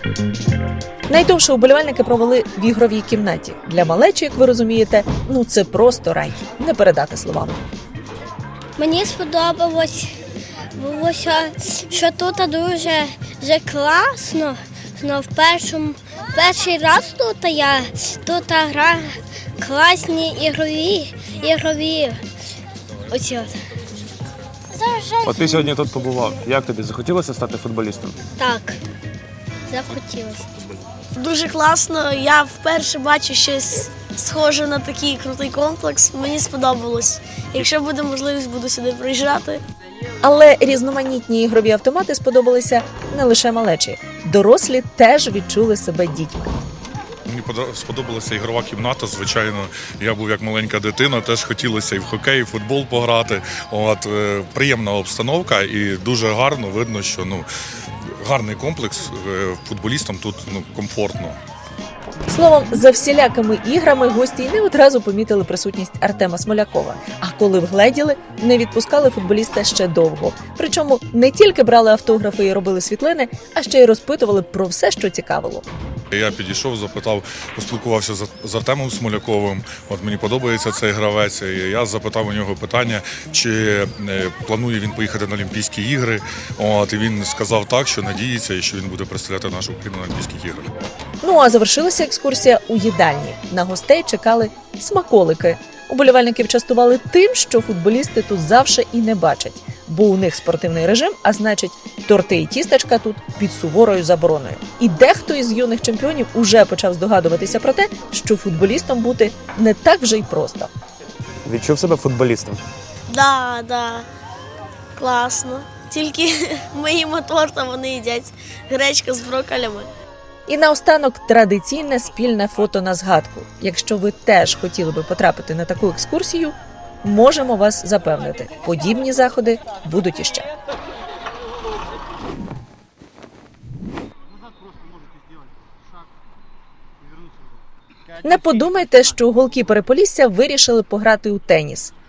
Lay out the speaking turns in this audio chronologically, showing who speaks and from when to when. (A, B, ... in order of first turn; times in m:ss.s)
0:01.1-0:07.6 A
0:08.8-0:10.2 B
0:10.8-0:22.2 B
0:23.1-0:23.6 B
0:24.7-0:25.5 B
0:25.4-0:28.1 C
0:28.4-0:28.8 B
0:29.7-0:30.5 B
0:31.2-0:39.6 D
0:40.2-0:46.5 A
0:47.3-0:57.5 E
0:58.2-1:01.4 E
1:02.3-1:15.7 A
1:16.1-1:30.7 E
1:31.2-1:50.7 A
1:51.6-1:52.5 C
1:53.1-1:54.1 D
1:55.0-1:59.9 D
2:00.5-2:10.5 A
2:18.2-2:21.9 A